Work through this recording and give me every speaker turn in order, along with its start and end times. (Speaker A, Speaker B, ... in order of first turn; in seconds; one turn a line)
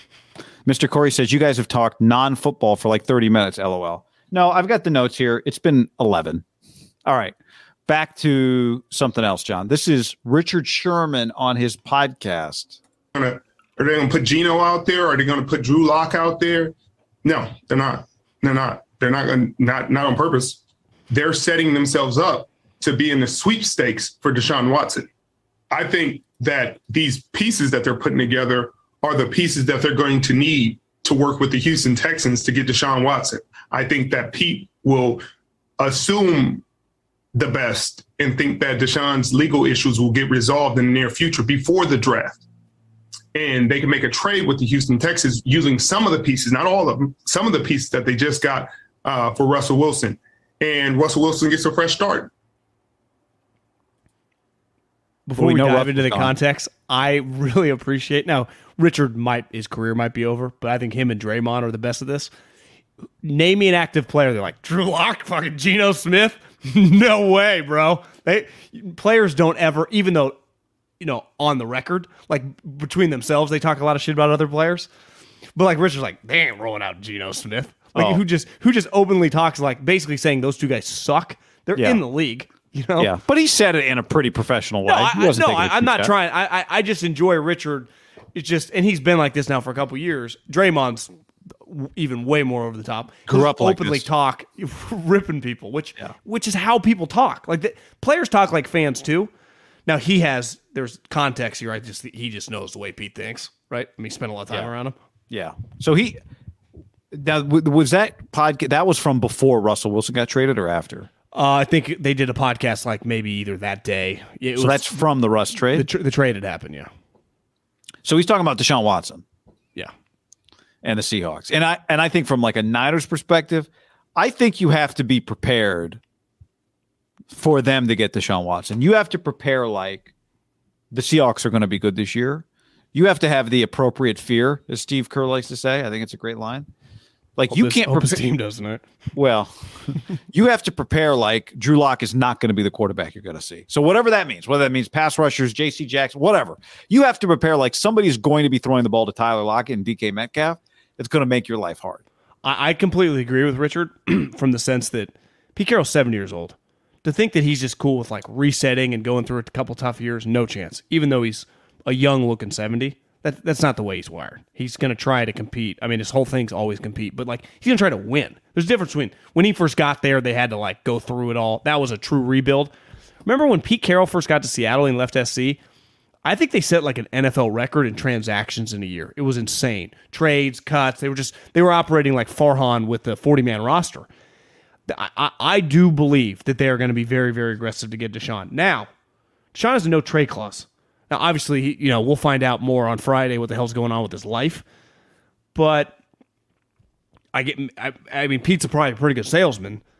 Speaker A: 0.7-6.4
Speaker A: 7.1-7.3
Speaker A: 7.9-12.8
Speaker B: 13.2-25.1
Speaker B: 25.7-35.2
Speaker B: 35.8-36.6
Speaker B: 37.4-42.4
Speaker B: 43.3-52.3
Speaker C: 55.3-62.3
Speaker A: 55.4-56.4
Speaker C: 63.2-70.4
Speaker C: 71.0-74.9
Speaker C: 75.6-83.1
Speaker A: 78.0-78.2
Speaker A: 81.8-82.0
Speaker A: 83.0-86.1
Speaker C: 84.9-91.1
Speaker C: 91.6-99.3
Speaker A: 93.3-94.1
Speaker C: 99.9-105.0
Speaker A: 105.3-106.2
Speaker A: 107.1-111.1
Speaker C: 111.3-115.0
Speaker A: 114.6-115.9
Speaker C: 115.7-116.9
Speaker A: 118.0-119.2
Speaker A: 120.8-126.0
Speaker A: 127.3-130.1
Speaker A: 130.9-136.7
Speaker A: 137.4-138.4
Speaker C: 137.5-138.8
Speaker A: 139.1-152.0
Speaker C: 152.4-172.7
Speaker C: 173.2-175.6
Speaker C: 176.2-184.1
Speaker C: 184.9-188.9
Speaker C: 189.5-194.6
Speaker C: 195.6-195.9
Speaker C: 197.3-199.8